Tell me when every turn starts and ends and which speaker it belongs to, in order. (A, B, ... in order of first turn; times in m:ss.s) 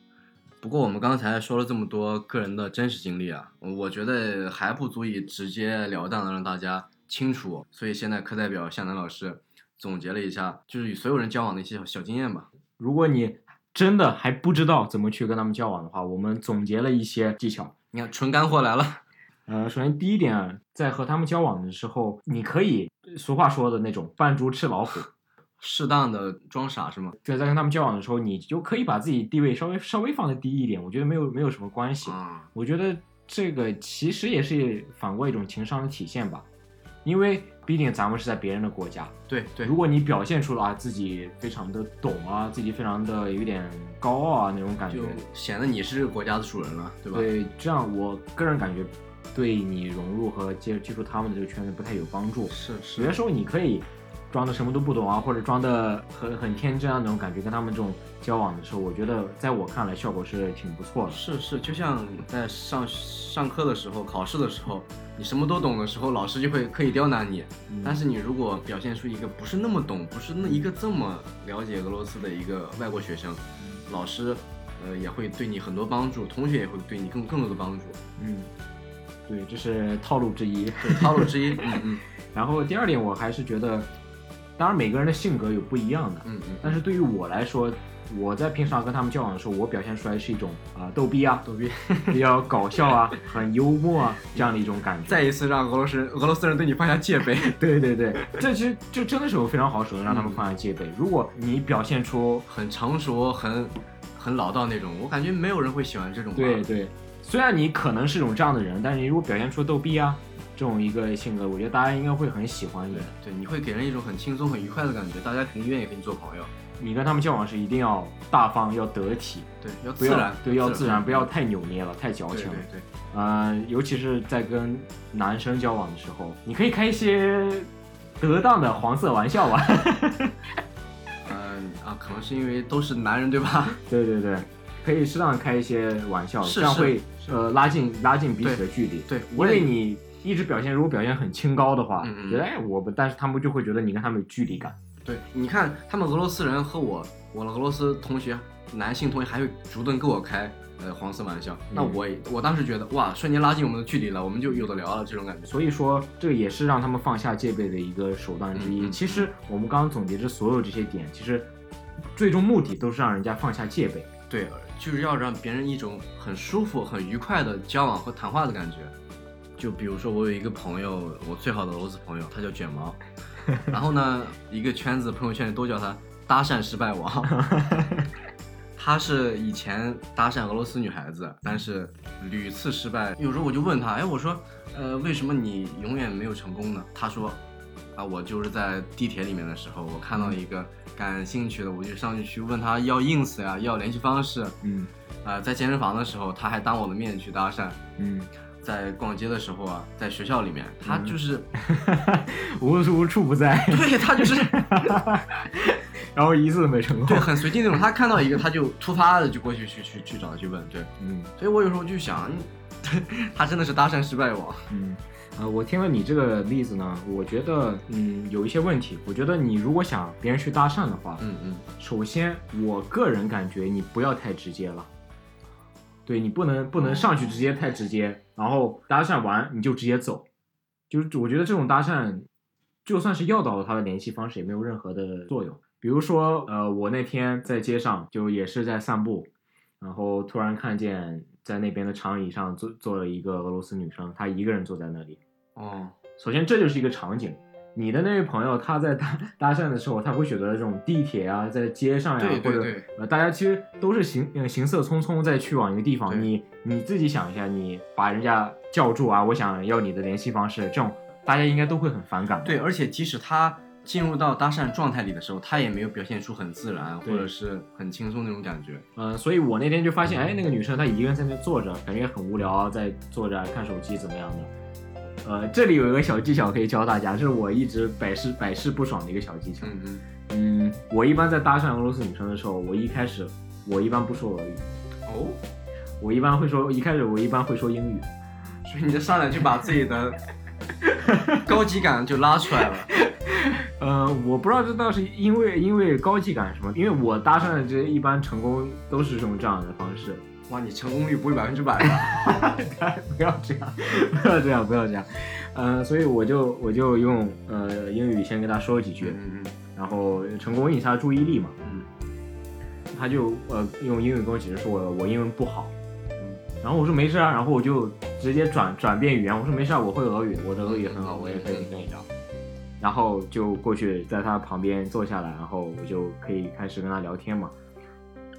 0:00.6-0:12.5 A
0:12.8-0:17.7 B
0:17.9-0:19.0 A
0:19.5-0:25.1 B
0:25.6-0:27.2 A
0:27.2-0:36.5 B
0:32.0-0:32.5 A
0:37.0-0:45.2 B
0:39.3-0:39.7 A
0:44.9-0:47.3 A
0:47.1-1:01.2 B
0:52.5-0:53.2 A
1:01.1-1:18.0 A
1:07.7-1:08.0 B
1:10.4-1:10.7 B
1:18.2-1:18.5 B
1:19.3-1:23.9 B
1:20.8-1:22.0 A
1:24.6-1:31.4 B
1:26.2-1:26.8 A
1:31.4-1:32.2 A
1:32.1-1:35.3 B
1:35.0-1:37.6 A
1:37.4-1:42.4 B
1:40.1-1:40.4 A
1:42.5-1:46.7 A
1:46.3-1:53.1 B
1:52.9-1:56.5 A
1:56.8-2:10.4 B
1:59.6-2:01.3 A
2:02.3-2:02.8 A
2:11.2-2:13.8 A
2:13.9-2:24.8 B
2:16.4-2:17.3 A
2:18.4-2:19.7 A
2:22.0-2:22.5 A
2:25.0-2:35.5 A
2:31.7-2:32.0 B
2:35.5-2:41.5 B
2:38.5-2:39.3 A
2:42.1-2:44.1 B
2:44.3-2:48.9 A
2:49.6-2:53.0 A
2:53.6-2:57.4 A
2:57.4-2:58.1 B
2:58.8-3:07.4 A
3:08.0-3:14.6 A
3:14.6-3:14.9 B
3:15.2-3:17.8 A
3:18.0-3:18.3 B
3:18.6-3:21.5 A
3:20.8-3:27.6 B
3:23.7-3:25.0 A
3:27.0-3:34.7 A
3:31.0-3:31.3 B
3:34.7-3:41.2 B
3:41.2-3:41.6 A
3:41.8-3:44.9 B
3:46.0-3:50.3 B
3:46.8-3:47.4 A
3:50.9-3:52.3 B
3:52.8-4:05.2 B
4:05.6-4:06.0 A
4:06.2-4:22.6 B
4:12.2-4:12.9 A
4:22.4-4:28.8 A
4:27.0-4:27.3 B
4:29.0-4:34.5 B
4:35.2-4:39.7 B
4:39.6-4:40.0 A
4:40.3-4:44.7 B
4:45.1-4:45.4 A
4:46.0-4:48.1 B
4:48.6-4:50.2 A
4:50.8-4:51.4 B
4:51.4-4:52.9 A
4:53.0-5:00.2 B
5:00.5-5:02.4 A
5:02.0-5:09.2 B
5:09.0-5:09.6 A
5:09.7-5:11.6 B
5:11.6-5:11.9 A
5:12.9-5:15.7 B
5:16.6-5:22.0 B
5:20.6-5:21.8 A
5:22.8-5:27.5 B